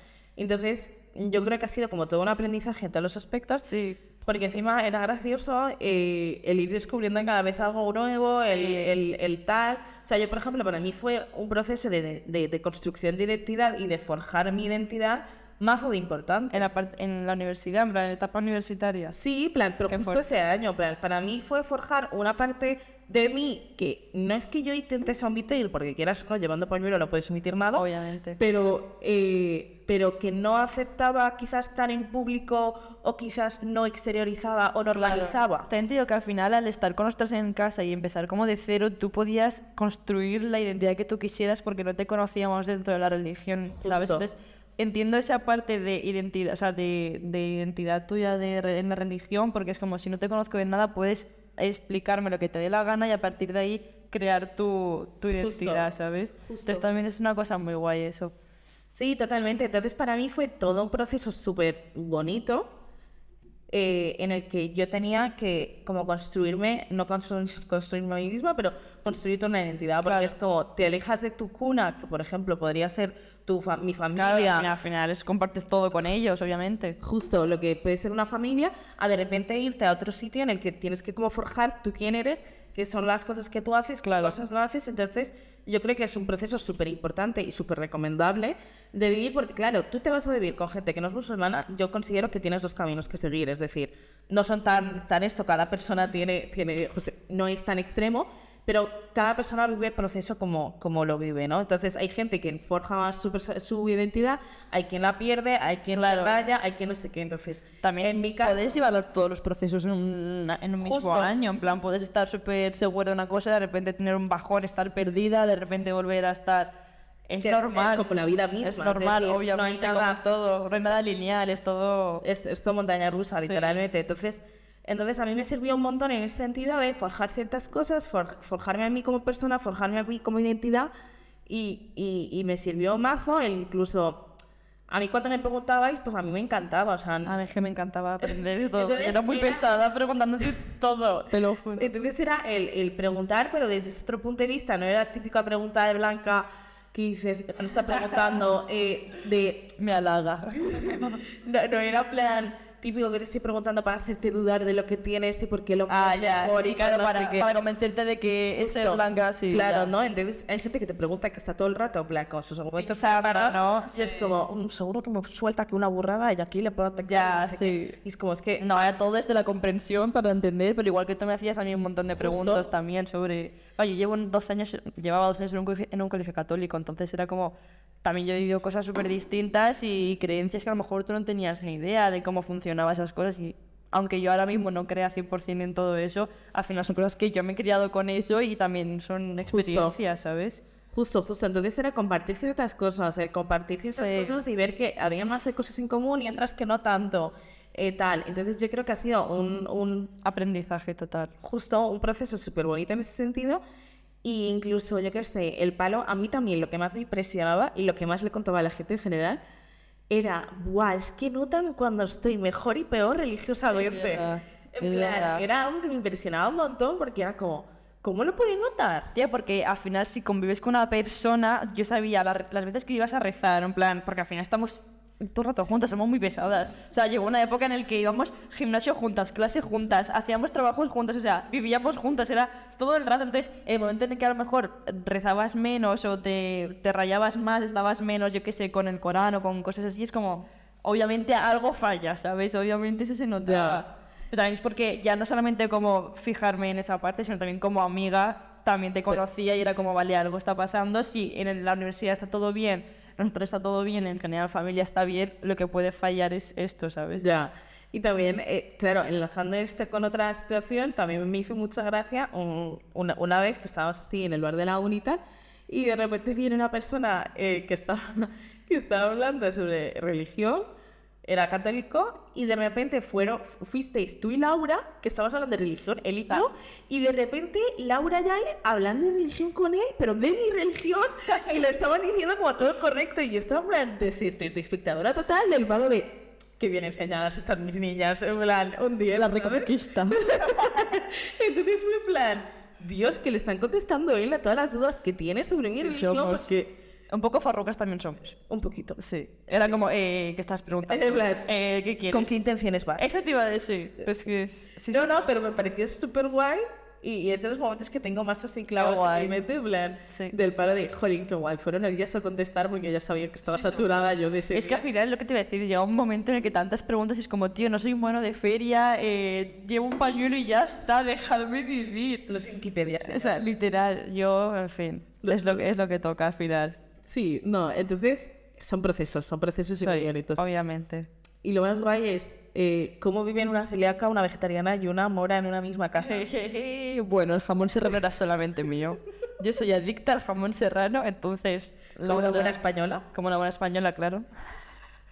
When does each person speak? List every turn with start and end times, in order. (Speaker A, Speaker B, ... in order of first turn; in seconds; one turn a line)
Speaker A: 0.3-3.6
Speaker B: 3.6-4.0
Speaker A: 4.2-16.6
Speaker B: 8.5-8.9
Speaker B: 16.5-19.1
Speaker A: 19.1-27.8
Speaker B: 19.9-20.2
Speaker B: 27.7-28.4
Speaker A: 28.4-35.7
Speaker B: 34.9-58.3
Speaker A: 43.8-44.2
Speaker A: 55.3-55.9
Speaker A: 56.4-56.8
Speaker A: 58.9-62.7
Speaker A: 63.7-74.7
Speaker B: 70.0-70.3
Speaker B: 74.2-77.0
Speaker A: 77.0-108.8
Speaker B: 84.0-84.4
Speaker B: 105.9-106.3
Speaker B: 107.8-116.7
Speaker A: 110.8-111.3
Speaker B: 117.3-118.1
Speaker A: 117.4-120.2
Speaker B: 118.6-122.2
Speaker A: 122.2-130.9
Speaker B: 123.4-123.7
Speaker A: 131.5-134.2
Speaker A: 134.9-137.3
Speaker B: 137.2-141.9
Speaker A: 138.2-139.7
Speaker A: 141.8-149.7
Speaker B: 149.8-151.2
Speaker A: 150.8-157.5
Speaker B: 155.9-159.9
Speaker A: 158.6-168.8
Speaker B: 162.8-164.3
Speaker B: 167.0-167.9
Speaker B: 168.6-190.6
Speaker A: 172.2-172.7
Speaker A: 189.4-189.9
Speaker A: 190.9-200.1
Speaker B: 193.9-194.3
Speaker B: 200.2-201.3
Speaker A: 201.4-203.6
Speaker A: 204.2-209.4
Speaker A: 210.1-219.1
Speaker B: 213.7-215.4
Speaker B: 219.1-257.2
Speaker A: 243.4-243.8
Speaker A: 257.2-270.7
Speaker A: 271.2-296.7
Speaker B: 289.1-290.5
Speaker B: 295.7-296.5
Speaker B: 297.1-298.4
Speaker A: 298.4-299.0
Speaker B: 299.0-302.4
Speaker A: 299.5-299.8
Speaker A: 300.9-301.5
Speaker A: 302.1-303.2
Speaker B: 303.0-305.2
Speaker A: 304.9-314.8
Speaker B: 308.8-309.4
Speaker B: 310.1-310.3
Speaker B: 314.5-322.3
Speaker A: 322.3-323.4
Speaker B: 323.1-326.8
Speaker A: 325.2-325.6
Speaker A: 327.0-330.4
Speaker B: 329.8-331.1
Speaker A: 331.4-336.3
Speaker B: 336.0-342.6
Speaker A: 342.0-343.0
Speaker B: 343.1-344.2